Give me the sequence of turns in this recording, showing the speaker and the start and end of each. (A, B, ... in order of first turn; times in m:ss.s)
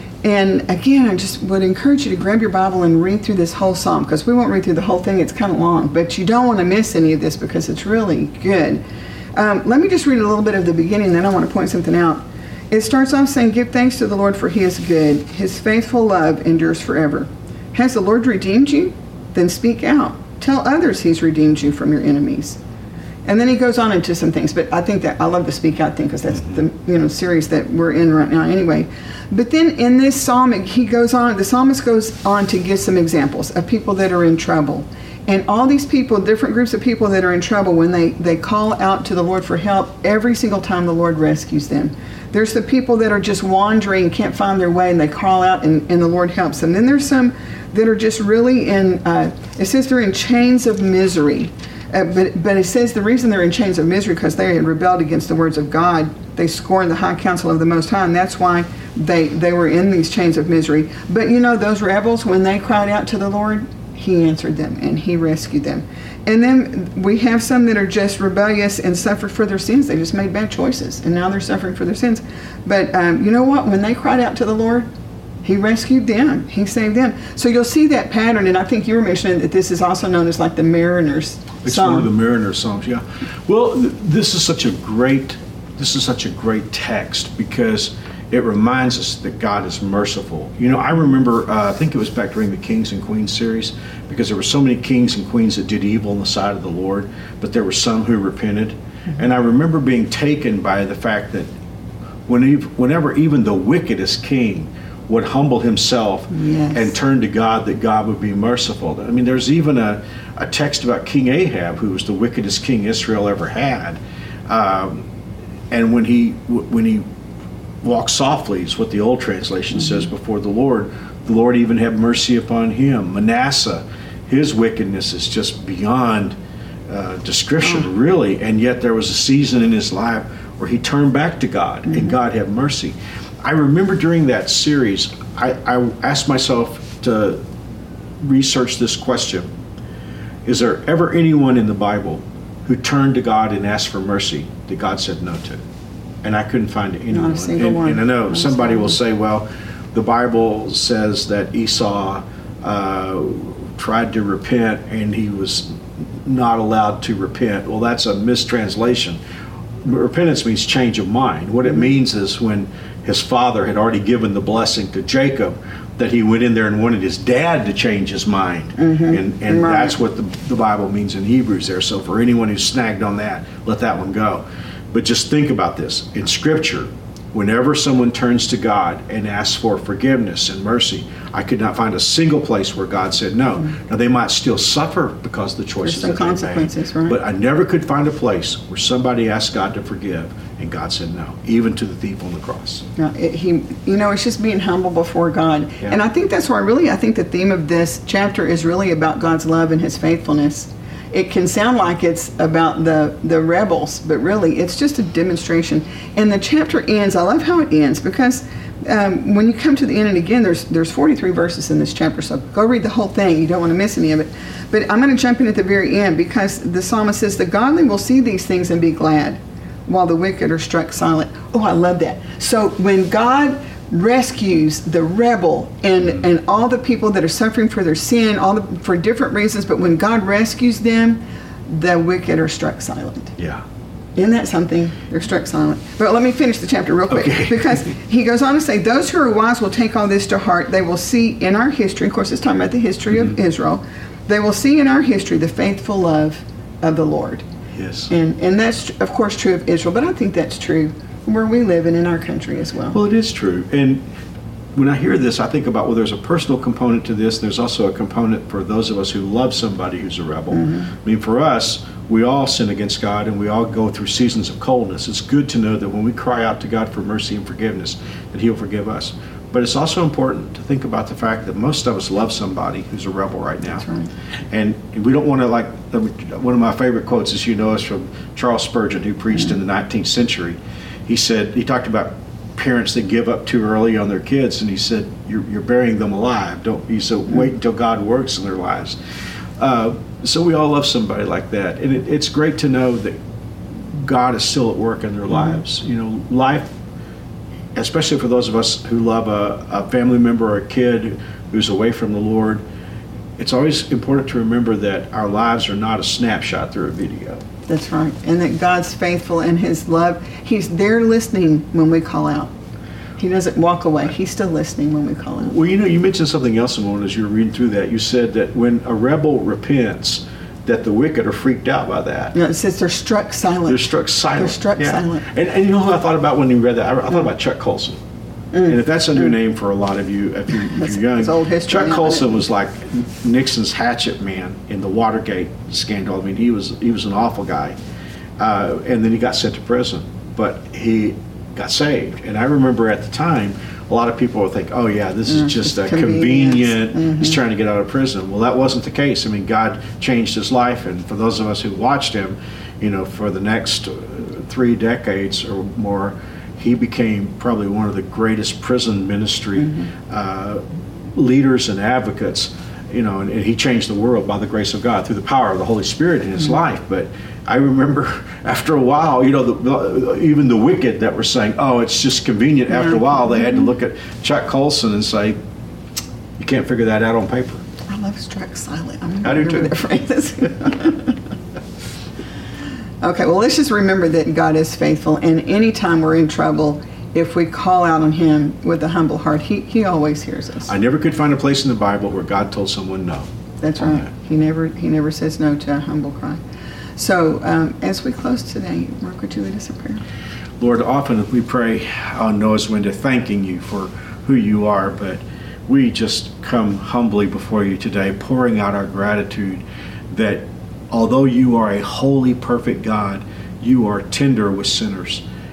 0:00.2-0:08.8 A
0:09.4-0:22.6 A
0:23.2-1:14.9 A
0:26.3-0:26.6 B
1:15.4-1:22.1 A
1:21.6-1:41.5 B
1:42.3-1:55.1 B
1:46.3-1:46.9 A
1:55.7-1:57.0 B
1:57.8-2:06.4 B
2:06.9-2:17.4 B
2:11.9-2:12.2 A
2:18.2-2:19.5 B
2:20.4-2:25.6 B
2:26.2-2:39.2 B
2:27.1-2:28.9 A
2:39.8-3:12.8 B
2:48.8-2:50.0 A
3:05.8-3:07.2 A
3:13.0-3:53.4 A
3:53.4-3:53.6 B
3:54.2-4:07.4 A
3:57.1-3:57.8 B
4:07.8-4:08.1 B
4:08.1-4:13.0 A
4:12.9-4:14.0 B
4:14.7-4:33.8 B
4:20.5-4:20.9 A
4:33.8-4:34.1 A
4:34.5-4:49.0 B
4:49.6-4:53.2 B
4:53.8-4:56.7 B
4:57.7-5:02.6 B
5:03.4-5:07.4 B
5:07.7-5:12.5 A
5:13.2-5:15.5 A
5:15.4-5:22.3 B
5:22.3-5:25.2 A
5:23.7-5:28.0 B
5:28.6-5:37.8 B
5:30.8-5:32.4 A
5:38.4-6:15.4 B
5:45.3-5:47.4 A
6:12.7-6:13.7 A
6:16.4-6:17.6 B
6:17.9-6:21.2 A
6:19.2-6:19.7 B
6:23.0-6:30.7 A
6:30.7-6:33.3 B
6:33.6-6:36.4 A
6:37.0-6:40.0 A
6:40.6-6:55.2 B